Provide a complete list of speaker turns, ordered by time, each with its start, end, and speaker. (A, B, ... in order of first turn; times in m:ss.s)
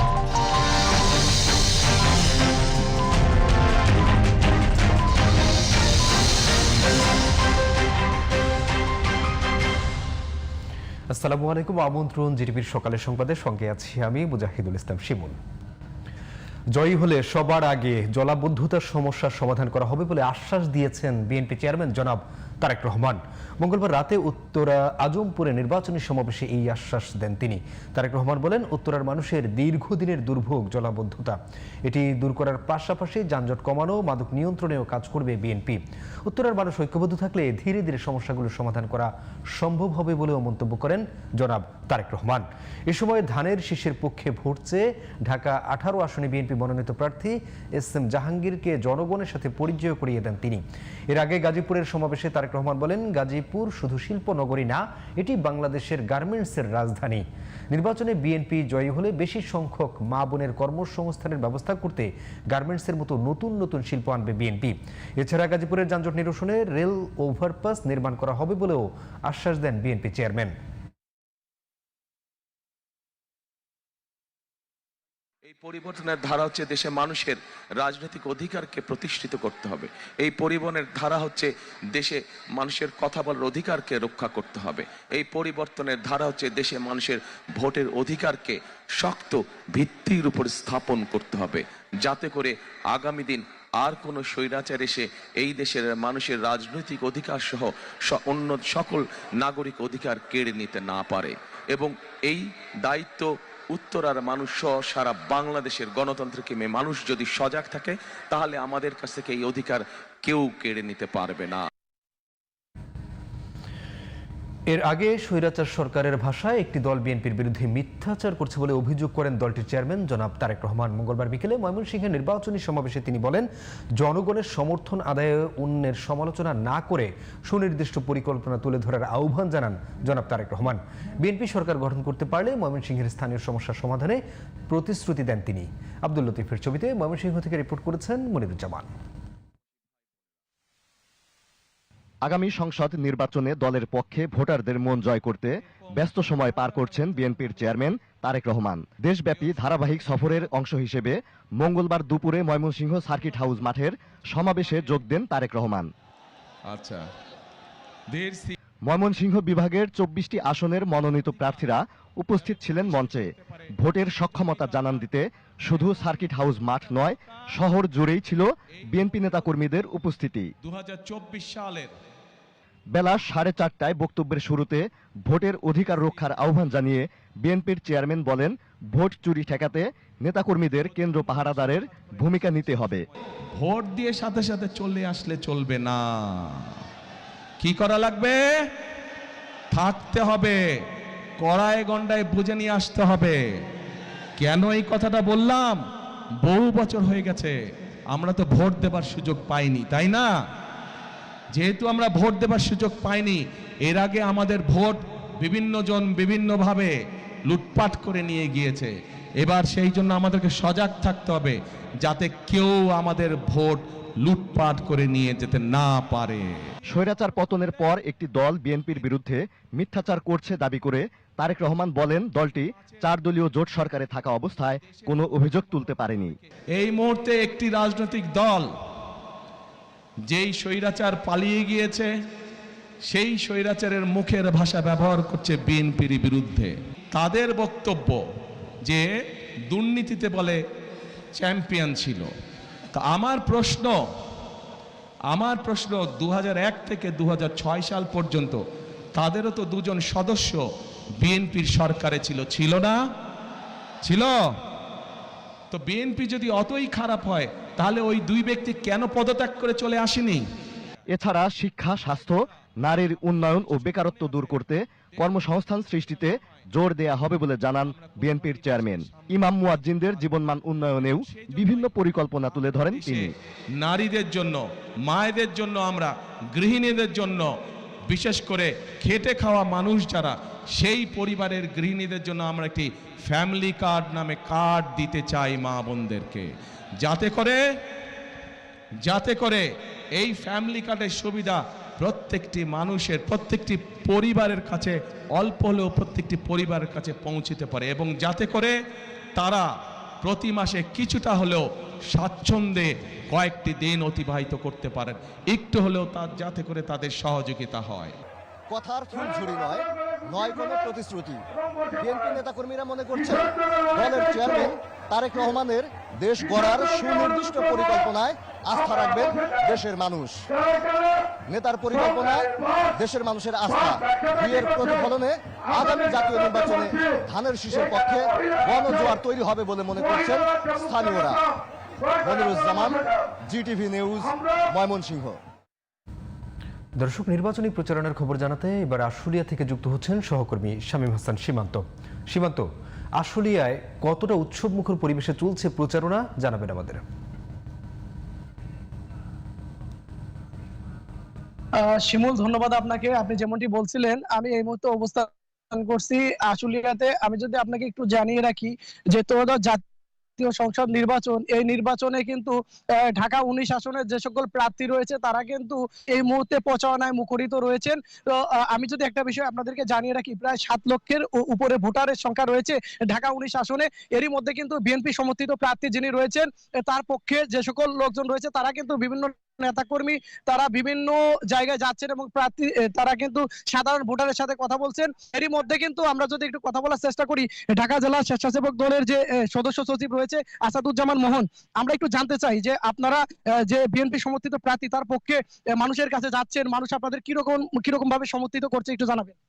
0:11.1-0:15.4 A
0:16.7-1:10.5 A
1:15.4-1:51.7 B
1:54.7-2:03.5 A
2:04.0-2:18.9 A
2:22.2-2:35.9 C
2:36.7-2:37.0 D
2:38.1-2:38.5 D
2:38.8-2:50.5 C
2:42.5-2:43.3 D
2:44.3-2:44.7 D
2:50.6-2:51.9 D
2:52.9-3:03.0 C
3:03.6-3:06.6 D
3:07.6-3:08.4 D
3:09.7-3:10.6 D
3:11.4-3:13.4 D
3:14.4-3:15.8 D
3:16.4-3:17.5 D
3:18.1-3:20.3 D
3:21.5-3:26.9 D
3:27.5-3:36.6 D
3:36.9-3:46.4 C
3:46.8-3:48.7 D
3:50.3-3:52.1 D
3:53.1-3:58.2 D
3:59.7-4:00.6 D
4:01.4-4:02.3 D
4:03.0-4:04.0 D
4:05.3-4:08.6 D
4:09.2-4:10.6 D
4:11.2-4:13.0 D
4:14.0-4:14.3 D
4:15.7-4:20.4 D
4:21.1-4:33.3 C
4:23.7-4:24.6 D
4:25.2-4:26.2 D
4:27.2-4:37.5 D
4:38.1-4:46.5 D
4:47.0-4:47.6 D
4:49.0-4:49.6 D
4:50.2-4:58.7 D
4:59.4-4:59.7 D
5:00.2-5:08.2 D
5:08.7-5:11.4 C
5:12.0-5:20.5 C
5:21.5-5:31.4 C
5:32.2-5:35.4 C
5:37.0-5:42.7 A
5:43.2-5:47.0 A
5:51.8-5:59.8 E
6:00.4-6:39.4 E